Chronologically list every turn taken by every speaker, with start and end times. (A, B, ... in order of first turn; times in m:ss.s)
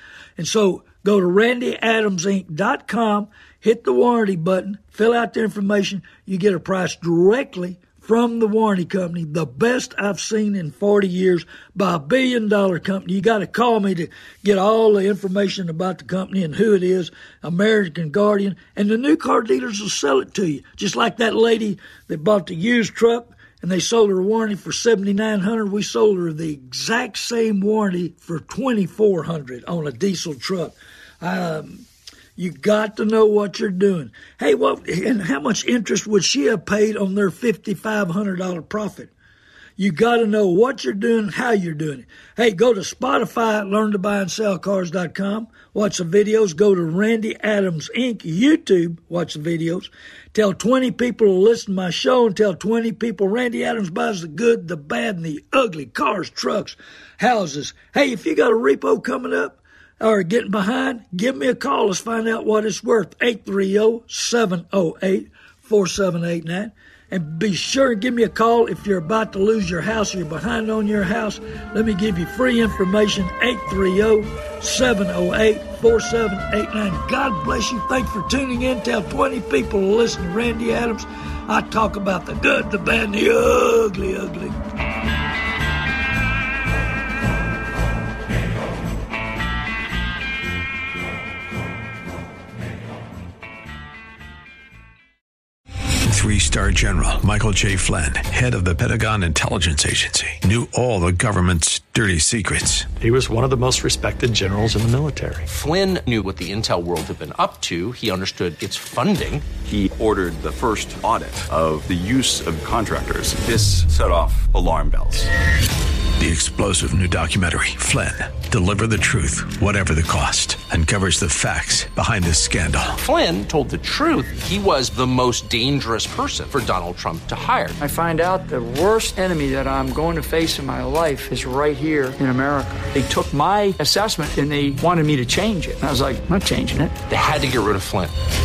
0:00.4-0:31.8 A
0:32.4-0:39.1 A
0:39.8-1:24.6 A
1:36.0-1:42.9 B
1:43.0-1:45.5 C
1:45.5-1:49.4 D
1:49.6-1:55.3 E
1:56.2-2:03.0 B
2:03.0-2:07.8 D
2:07.8-2:17.0 F
2:17.1-2:18.1 D